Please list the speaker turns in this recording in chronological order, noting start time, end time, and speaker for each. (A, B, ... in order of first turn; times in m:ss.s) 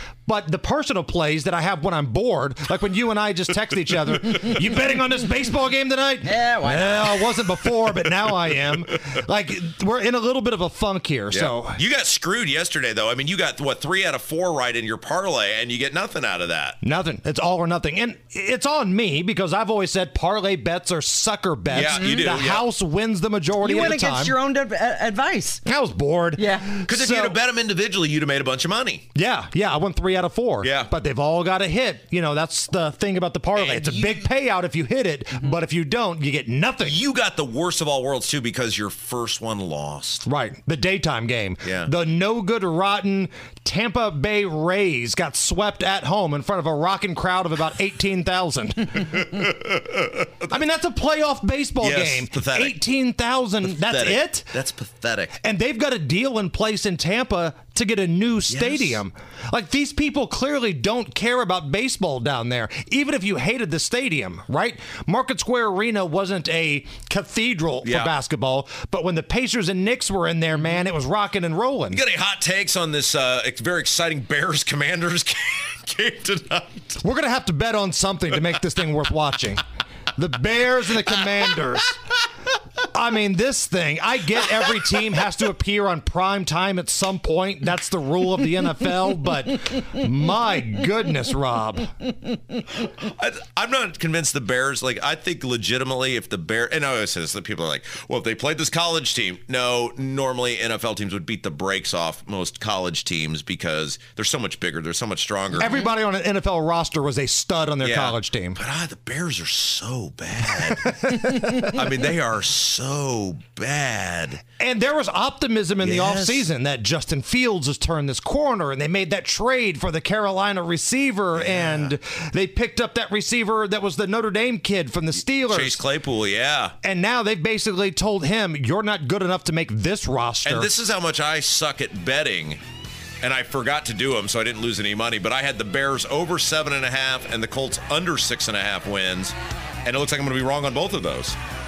0:00.3-0:11.8 A
0:06.2-0:07.1 B
0:11.3-0:16.8 C
0:16.8-0:24.4 A
0:21.7-0:22.7 C
0:22.0-0:22.3 B
0:23.6-0:25.6 B
0:25.6-0:27.4 A
0:26.4-0:26.7 B
0:26.8-0:29.0 C
0:29.1-0:37.0 A
0:30.6-0:30.9 C
0:33.5-0:34.1 C
0:36.8-0:40.2 C
0:40.2-0:49.0 A
0:41.6-0:41.9 C
0:49.1-0:50.3 C
0:50.5-0:54.5 A
0:51.8-0:52.8 C
0:53.6-0:55.4 C
0:55.4-1:12.0 A
0:58.5-0:59.0 C
1:07.8-1:08.1 C
1:11.9-1:17.0 C
1:17.0-1:19.6 A
1:20.2-1:22.0 A
1:22.9-1:31.9 A
1:32.8-1:45.8 C
1:45.6-1:48.6 A
1:47.8-1:54.4 C
1:50.6-1:51.5 A
1:54.6-2:05.8 A
1:55.8-1:56.5 C
2:01.3-2:01.9 C
2:05.4-2:06.7 C
2:06.8-2:10.7 A
2:10.4-2:12.6 C
2:13.2-2:21.4 C